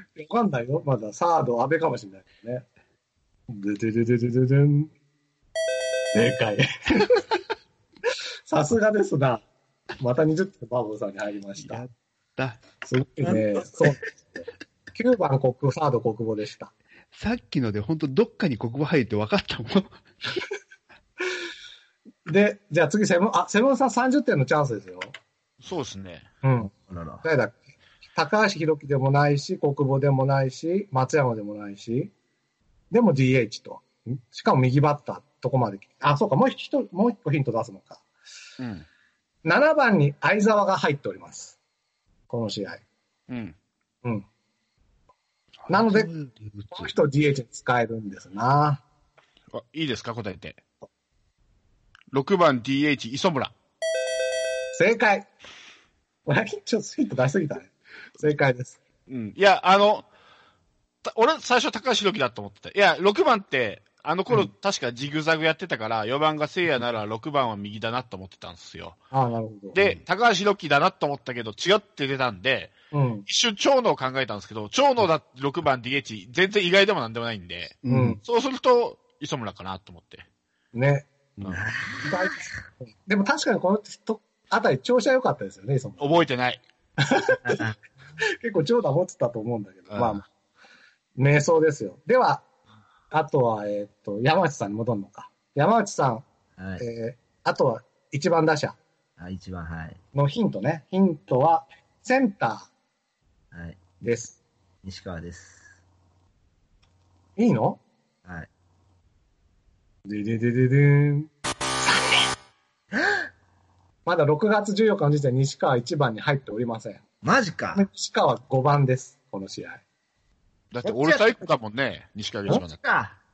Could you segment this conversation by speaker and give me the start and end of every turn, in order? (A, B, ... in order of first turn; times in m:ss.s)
0:00.2-0:02.6 A
0:03.5-0:04.9 A
0:06.1-0:07.2 A
0:08.5-0:09.4 A
0:10.0-0:11.8 A
0:11.6-0:12.6 B
0:12.8-0:16.7 A
0:17.1-0:20.4 B
0:22.2-0:25.1 A
0:25.6-0:26.2 C
0:26.4-0:26.7 A
0:26.9-0:27.2 D
0:27.2-0:27.6 A
0:28.1-0:32.1 A
0:32.9-0:38.0 A
0:38.6-0:38.8 C
0:39.4-0:41.6 A
0:42.3-0:42.8 A
0:43.3-0:43.5 C
0:45.6-0:46.9 B
0:45.7-0:46.1 A
0:46.7-0:48.8 A
0:49.5-0:50.6 C
0:52.1-0:53.5 C
0:54.7-0:55.3 A
0:56.2-0:58.8 A
0:59.1-1:00.0 C
1:01.0-1:09.0 C
1:09.1-1:09.9 A
1:09.7-1:12.8 C
1:12.9-1:13.2 A
1:13.3-1:20.2 C
1:17.8-1:18.2 B
1:17.9-1:18.2 A
1:20.7-1:21.1 A
1:21.4-1:22.5 D
1:22.1-1:26.2 A
1:26.0-1:26.6 C
1:27.0-1:27.6 A
1:27.4-1:27.8 D
1:28.4-1:30.2 A
1:29.9-1:30.2 C
1:31.2-1:32.4 A
1:33.1-1:36.2 A
1:36.6-1:36.8 D
1:36.8-1:38.8 A
1:39.2-1:40.0 D
1:40.1-1:42.7 A
1:43.5-1:43.8 D
1:44.0-1:44.4 A
1:44.8-1:45.8 D
1:47.4-1:47.8 A
1:50.1-1:51.3 A
1:51.8-1:52.2 A
1:52.9-1:53.3 D
1:54.0-1:57.0 A
1:57.2-1:57.9 D
1:57.7-1:59.8 A
2:00.7-2:02.8 C
2:00.8-2:01.4 D
2:02.5-2:03.2 D